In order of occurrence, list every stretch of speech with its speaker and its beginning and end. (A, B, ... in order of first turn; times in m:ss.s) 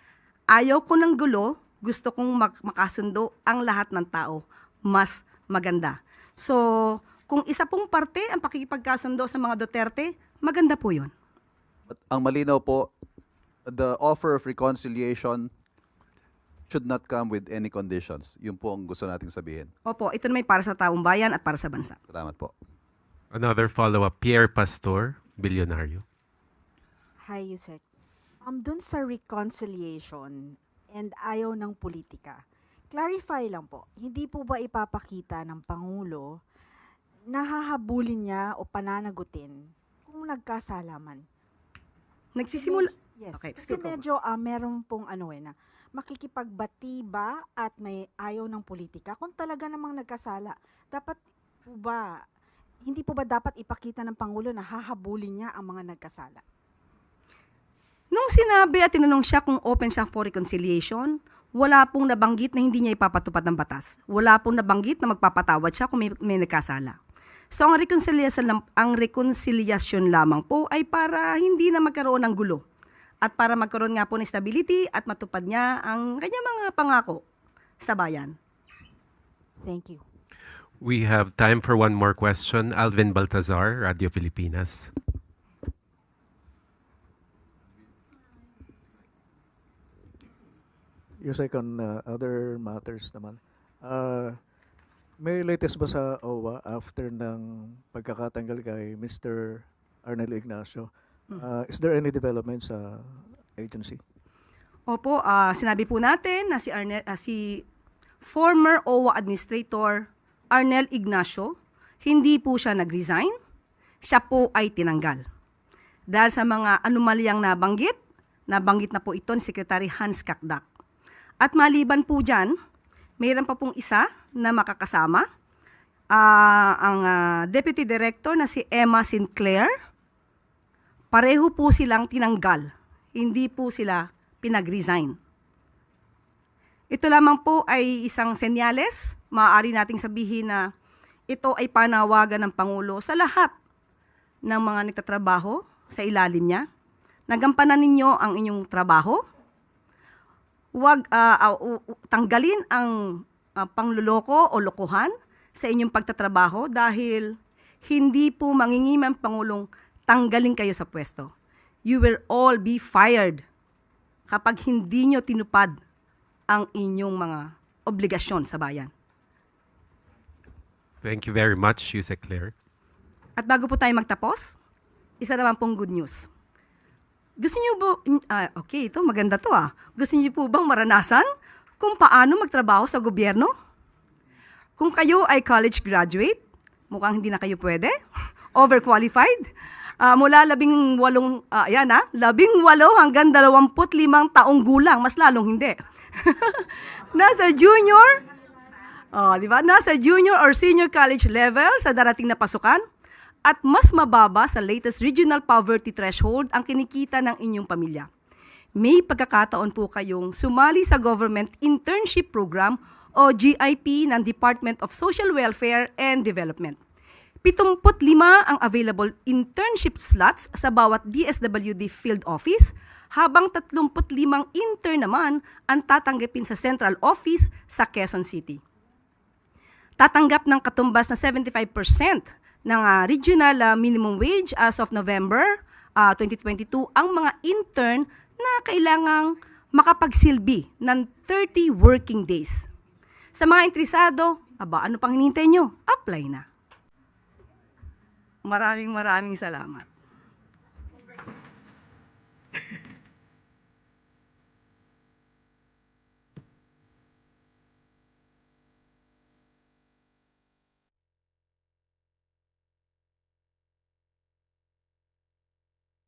0:00.6-0:11.1 A
0:12.2-0:12.6 B
0:12.6-0:12.8 C
0:13.7-0:15.4 B
0:16.7-0:19.6 B
0:17.1-0:18.1 C
0:19.0-0:19.6 C
0:19.9-0:22.0 A
0:22.1-0:22.5 C
0:23.3-0:26.0 D
0:27.2-0:27.8 C
0:28.4-0:36.4 C
0:37.3-0:41.2 C
0:42.4-0:44.0 A
0:42.5-0:52.2 C
0:52.8-0:56.4 C
0:58.1-1:07.0 A
1:07.5-1:12.6 A
1:13.2-1:17.2 A
1:17.8-1:18.4 A
1:19.6-1:20.0 C
1:20.8-1:24.9 D
1:31.2-1:34.5 E
1:35.2-1:44.0 E
1:44.9-1:47.6 A
1:48.2-1:53.3 A
1:54.0-1:55.2 A
1:56.1-1:58.0 A
1:58.5-2:00.6 A
2:01.4-2:02.5 A
2:03.2-2:05.2 A
2:06.2-2:09.7 A
2:11.1-2:15.2 A
2:16.9-2:20.7 A
2:21.3-2:23.5 A
2:24.5-2:26.6 A
2:27.3-2:29.2 A
2:30.8-2:37.3 A
2:37.8-2:41.3 A
2:41.9-2:43.4 A
2:44.3-2:45.8 A
2:46.5-2:48.9 A
2:51.0-2:52.5 D
2:53.4-2:54.5 A
2:55.2-2:56.3 A
2:57.4-3:01.3 A
3:01.8-3:03.5 A
3:04.8-3:08.0 A
3:08.6-3:09.4 A
3:10.0-3:18.2 A
3:19.1-3:22.8 A
3:23.4-3:28.1 A
3:28.8-3:36.8 A
3:37.4-3:48.6 A
3:50.0-4:02.7 A
4:03.4-4:06.4 A
4:08.5-4:09.9 A